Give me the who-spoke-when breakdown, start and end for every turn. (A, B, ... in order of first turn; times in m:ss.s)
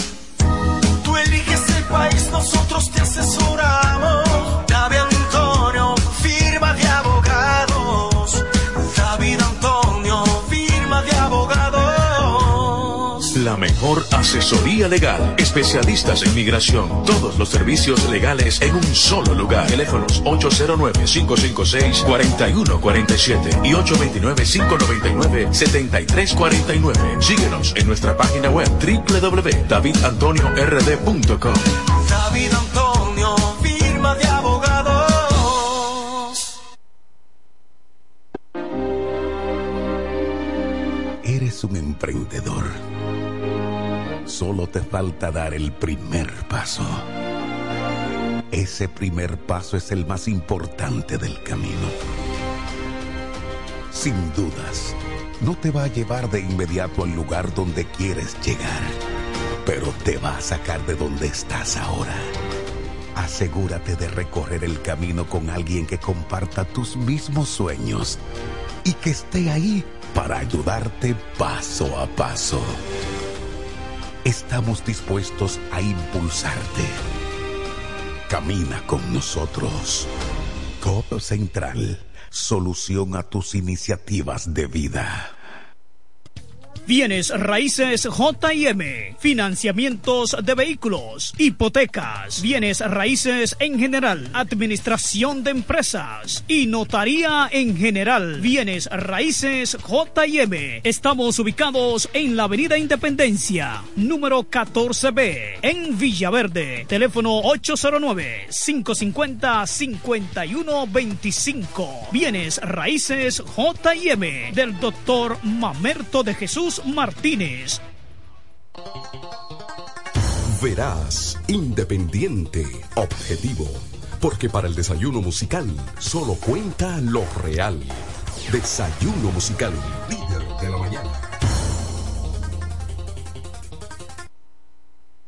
0:01.0-0:13.3 A
0:13.3-0:31.6 B
0:31.9-0:36.5 A
0:41.2-0:42.8 C
0:44.2-0:47.0 C
0:48.5-0:51.9 C
0:53.9-0:59.0 C
0:59.6-1:02.3 C
1:03.1-1:08.2 C
1:08.8-1:12.8 C
1:14.2-1:17.0 C
1:18.3-1:20.1 C
1:20.8-1:25.3 C
1:26.8-1:57.8 D
2:00.5-2:11.3 E